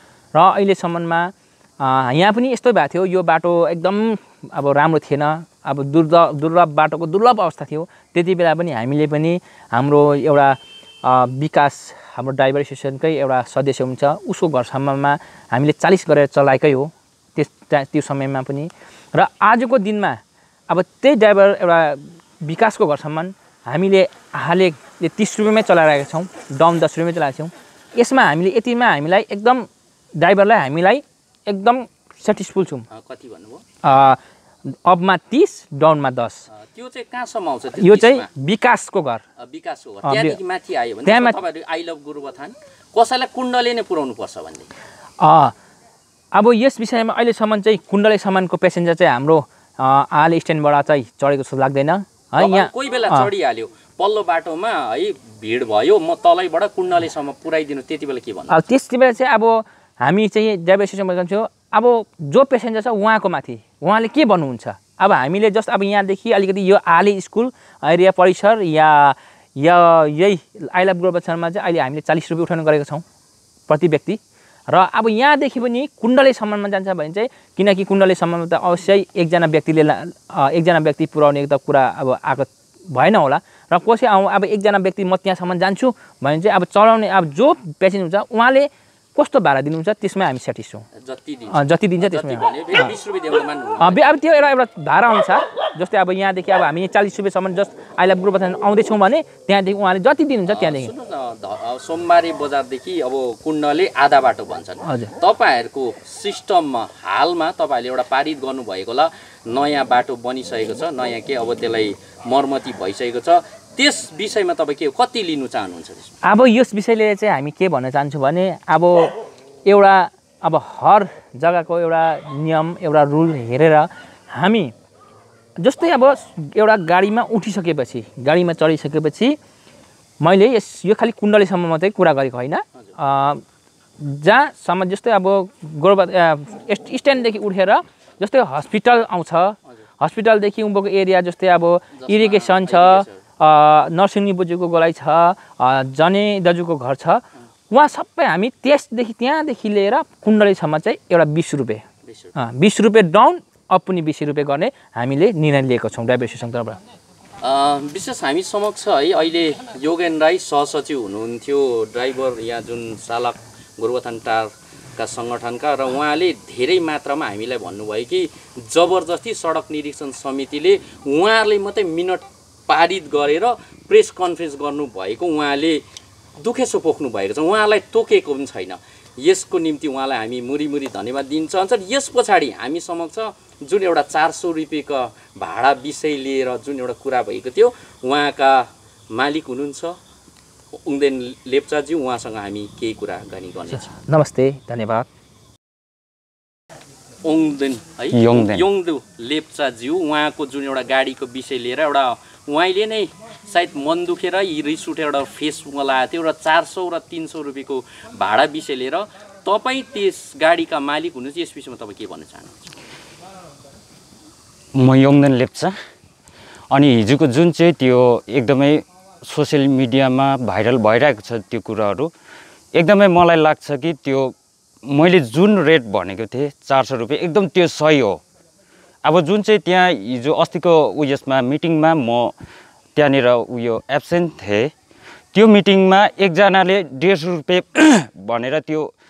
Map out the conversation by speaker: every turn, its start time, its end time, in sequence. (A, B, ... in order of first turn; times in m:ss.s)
0:00.4-0:32.9 A
0:32.9-0:33.6 B
0:33.8-0:34.2 A
0:34.8-0:36.5 A
0:36.5-0:38.3 B
0:37.8-0:39.2 A
0:39.4-0:44.7 B
0:40.1-0:40.4 A
0:41.1-0:41.4 A
0:45.2-0:45.6 A
0:46.3-0:53.3 A
0:52.4-0:58.6 B
0:58.5-1:13.0 A
1:13.7-1:14.2 A
1:14.7-1:30.9 A
1:31.0-1:34.0 B
1:31.5-1:32.9 A
1:33.8-1:40.9 A
1:40.5-1:56.2 B
1:44.9-1:45.1 A
1:56.2-2:04.7 A
2:05.6-2:09.4 A
2:10.2-2:13.4 A
2:14.0-2:31.8 A
2:22.0-2:23.2 B
2:32.0-2:32.4 B
2:32.4-2:36.8 A
2:37.4-2:55.8 B
2:56.4-3:10.0 B
3:10.8-3:14.0 B
3:13.9-3:15.1 A
3:17.2-3:32.6 B
3:18.1-3:18.7 C
3:34.8-3:35.7 C
3:36.7-3:42.1 C
3:42.8-3:44.3 C
3:44.9-3:48.2 C
3:49.0-3:52.3 C
3:53.0-3:54.7 C
3:55.3-3:58.9 C